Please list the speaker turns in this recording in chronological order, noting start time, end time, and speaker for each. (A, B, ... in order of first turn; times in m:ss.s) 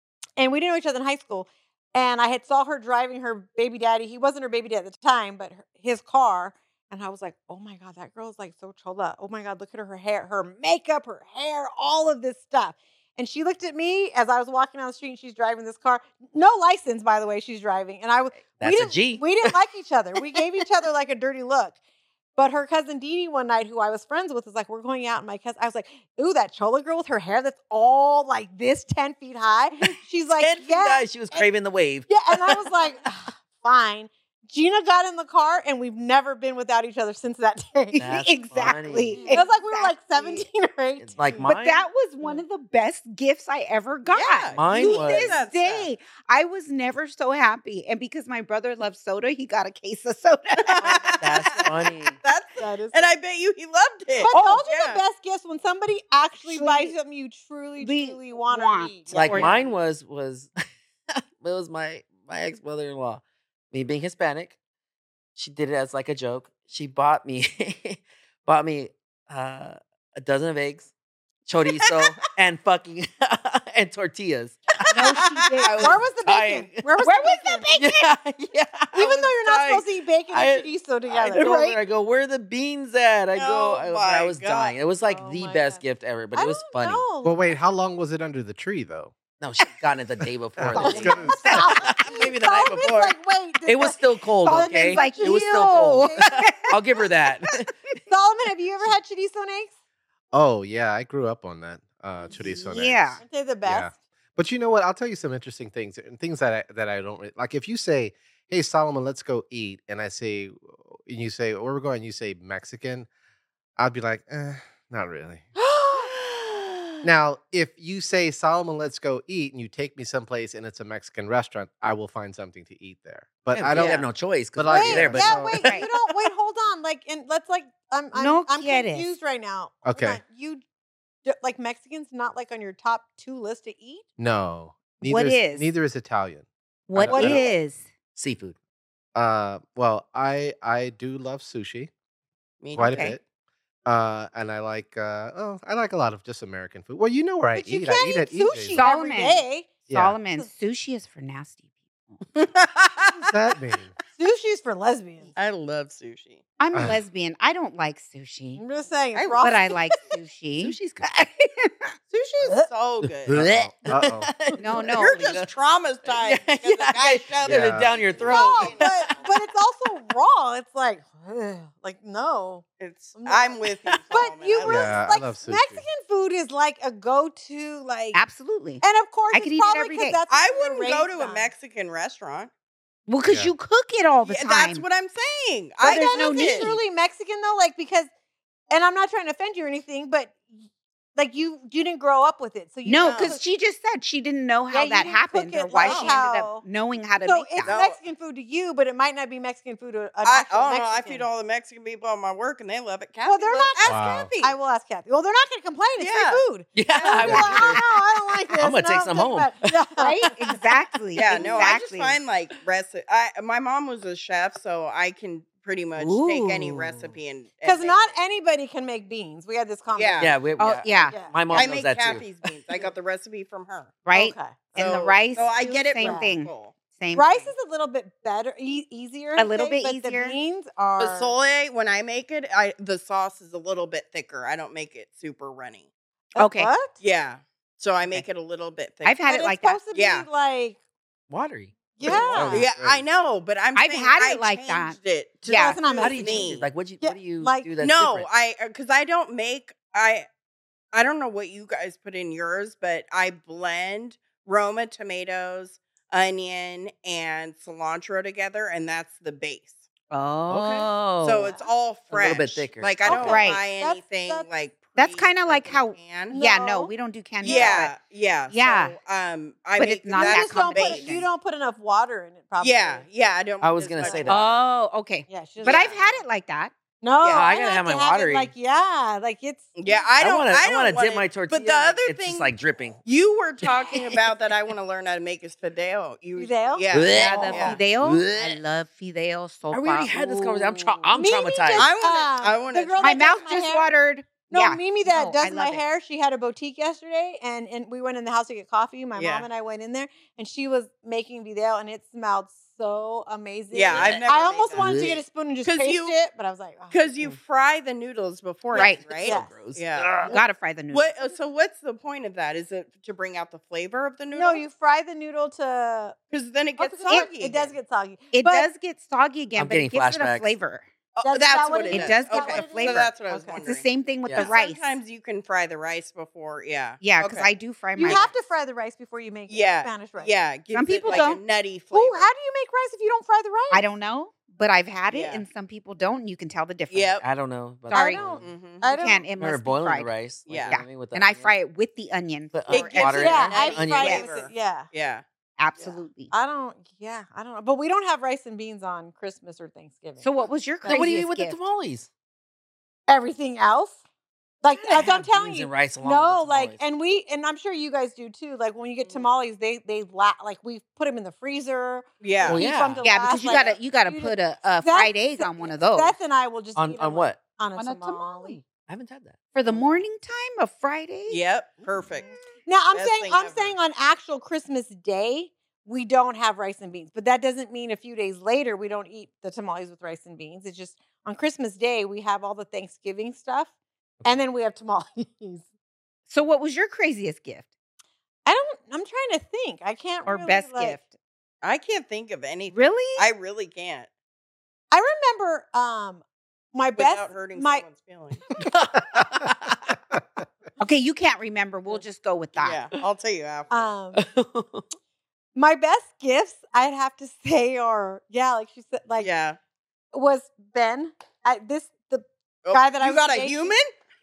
0:00.4-0:21.8 A
0:18.6-0:19.5 B
0:22.4-0:31.4 A
0:29.8-0:32.6 B
0:32.1-0:38.2 A
0:38.0-0:39.3 B
0:38.0-0:39.9 C
0:39.2-0:41.5 A
0:41.0-0:41.9 B
0:41.4-0:51.2 C
0:44.1-0:45.9 D
0:44.5-0:45.4 B
0:50.6-0:51.7 D
0:50.8-0:51.2 A
0:51.2-0:52.2 B
0:52.2-0:55.0 D
0:52.6-0:53.2 A
0:54.2-0:59.6 A
0:54.3-0:54.6 C
0:56.4-0:56.9 C
0:57.8-0:59.6 C
0:59.1-1:00.5 B
1:01.4-1:04.6 B
1:05.3-1:10.9 B
1:11.5-1:16.8 B
1:11.7-1:12.2 D
1:14.9-1:16.0 C
1:15.8-1:17.7 A
1:17.0-1:18.1 C
1:17.8-1:27.0 B
1:18.9-1:21.8 A
1:23.4-1:24.7 D
1:25.0-1:25.8 A
1:26.3-1:27.5 A
1:27.2-1:29.2 E
1:29.4-1:37.7 B
1:30.6-1:31.5 E
1:30.8-1:36.4 A
1:30.8-1:31.8 C
1:34.4-1:37.0 C
1:38.1-1:39.7 A
1:40.3-1:53.1 E
1:42.2-1:43.2 C
1:43.2-1:43.9 A
1:53.8-1:55.4 E
1:55.6-1:56.1 A
1:57.0-2:05.7 E
2:03.5-2:05.7 B
2:04.7-2:10.6 A
2:08.1-2:09.1 C
2:09.8-2:10.2 E
2:11.2-2:14.0 A
2:14.2-2:17.5 E
2:15.0-2:15.7 C
2:16.9-2:17.8 C
2:17.1-2:17.5 A
2:18.1-2:18.5 B
2:19.1-2:21.9 E
2:22.6-2:23.0 D
2:22.7-2:23.2 E
2:22.7-2:23.2 C
2:23.8-2:28.8 E
2:27.5-2:29.7 A
2:28.7-2:32.2 C
2:29.9-2:30.2 E
2:32.4-2:33.3 D
2:33.2-2:33.9 E
2:34.1-2:35.3 A
2:35.4-2:36.4 D
2:36.6-2:38.6 C
2:36.7-2:37.0 E
2:38.6-2:39.8 A
2:39.1-2:39.4 B
2:39.4-2:41.9 C
2:40.6-2:41.0 B
2:42.1-2:43.4 D
2:43.2-2:44.9 B
2:43.3-2:44.3 E
2:44.6-2:45.5 C
2:44.9-2:49.3 D
2:46.1-2:49.3 B
2:47.4-2:48.0 E
2:48.2-2:52.6 A
2:48.3-2:48.6 C
2:52.8-2:54.9 D
2:53.2-2:53.6 A
2:54.1-2:58.2 A
2:54.6-2:55.8 E
2:58.1-3:00.2 C
2:58.8-3:01.5 A
3:00.3-3:02.5 D
3:03.1-3:04.8 C
3:03.2-3:03.5 E
3:04.2-3:06.7 D
3:05.8-3:06.8 C
3:05.8-3:08.1 A
3:08.7-3:10.5 A
3:11.1-3:13.4 A
3:12.8-3:17.7 C
3:13.0-3:13.3 D
3:14.7-3:16.6 A
3:15.8-3:16.2 D
3:17.2-3:21.3 A
3:17.6-3:18.0 D
3:20.2-3:24.5 D
3:23.2-3:30.6 A
3:23.8-3:24.3 E
3:26.0-3:26.4 D
3:26.7-3:27.8 B
3:26.9-3:27.5 D
3:27.2-3:28.0 C
3:28.5-3:29.7 B
3:30.0-3:32.2 C
3:31.1-3:38.1 D
3:31.3-3:31.7 A
3:36.0-3:37.0 C
3:37.6-3:40.3 A
3:39.9-3:40.3 D
3:40.2-3:42.3 B
3:40.6-3:41.8 C
3:41.5-3:44.0 D
3:44.0-3:47.5 C
3:44.1-3:46.3 A
3:44.8-3:46.7 D
3:47.1-3:51.3 A
3:49.4-3:50.4 C
3:51.0-3:55.9 D
3:56.4-3:56.7 C
3:56.4-3:57.0 A
3:57.0-3:59.2 D
3:59.0-3:59.8 C
3:59.2-4:00.8 A
3:59.9-4:00.3 D
4:01.3-4:03.0 B
4:02.0-4:02.7 A
4:02.0-4:06.6 D
4:03.7-4:05.8 C
4:05.4-4:07.7 A
4:06.0-4:08.3 B
4:07.8-4:10.2 D
4:10.9-4:19.9 D
4:20.1-4:21.6 C
4:20.5-4:20.9 B
4:21.2-4:26.3 D
4:22.1-4:23.3 B
4:23.0-4:24.5 A
4:23.3-4:23.6 C
4:25.0-4:28.0 C
4:26.3-4:26.9 A
4:27.4-4:31.1 D
4:27.4-4:27.9 A
4:28.5-4:29.0 C
4:29.8-4:31.3 C
4:30.1-4:33.0 A
4:32.6-4:34.6 D
4:33.6-4:34.6 B
4:34.0-4:34.3 A
4:34.2-4:36.7 C
4:35.3-4:36.2 A
4:35.6-4:36.0 D
4:37.0-4:40.0 A
4:37.2-4:37.5 D
4:37.3-4:38.5 B
4:39.8-4:42.5 D
4:40.2-4:43.0 B
4:41.7-4:41.9 A
4:43.0-4:47.8 D
4:46.4-4:46.8 A
4:46.9-4:48.6 B
4:47.1-4:51.1 C
4:49.7-4:51.9 B
4:51.1-4:53.9 A
4:51.7-4:53.4 D
4:53.0-4:55.8 C
4:54.5-5:07.0 A
4:59.1-4:59.5 D
5:03.7-5:05.1 D
5:03.9-5:04.2 B
5:04.7-5:05.2 B
5:05.6-5:06.1 D
5:06.9-5:10.3 D
5:08.7-5:09.0 C
5:08.8-5:09.5 A
5:08.8-5:10.4 B
5:10.2-5:11.1 C
5:10.9-5:14.6 D
5:14.3-5:16.1 A
5:16.3-5:17.7 D
5:16.8-5:18.7 A
5:18.3-5:20.8 C
5:19.5-5:20.5 B
5:21.1-5:27.5 D
5:21.2-5:23.7 A
5:21.9-5:24.8 C
5:24.2-5:24.5 B
5:27.0-5:28.3 C
5:28.0-5:30.3 A
5:28.0-5:28.3 D
5:29.5-5:32.3 D
5:30.7-5:31.4 C
5:31.9-5:33.8 A
5:33.7-5:37.2 C
5:35.1-5:35.4 D
5:36.9-5:37.2 D
5:37.2-5:38.4 B
5:37.9-5:44.2 C
5:37.9-5:39.2 A
5:38.4-5:38.8 D
5:39.4-5:41.5 B
5:40.5-5:40.8 D
5:42.5-5:44.2 B
5:42.7-5:45.2 D
5:43.1-5:44.9 A
5:45.6-5:46.3 C
5:46.3-5:51.2 A
5:50.2-5:51.6 C
5:50.8-5:52.1 B
5:53.1-5:54.0 A
5:54.6-6:08.6 A
5:54.7-5:55.2 C
5:55.0-5:56.8 B
5:59.0-5:59.3 D
6:02.2-6:02.6 D
6:02.4-6:03.0 B
6:03.0-6:06.2 C
6:03.3-6:03.8 D
6:06.7-6:07.4 B
6:07.8-6:08.6 C
6:08.8-6:09.4 B
6:09.5-6:11.4 C
6:11.3-6:12.3 D
6:12.6-6:23.7 A
6:12.9-6:13.8 D
6:24.2-6:25.6 A
6:26.3-6:27.7 C
6:28.4-6:31.0 A
6:30.2-6:31.1 C
6:31.6-6:34.1 D
6:32.7-6:33.3 C
6:34.9-6:36.2 A
6:36.7-6:37.8 A
6:37.0-6:38.4 D
6:38.6-6:40.0 B
6:40.8-6:42.8 C
6:42.5-6:43.9 D
6:43.7-6:44.2 A
6:44.1-6:44.8 B
6:45.5-6:49.3 A
6:49.2-6:49.6 D
6:50.1-6:53.8 A
6:52.6-6:53.9 D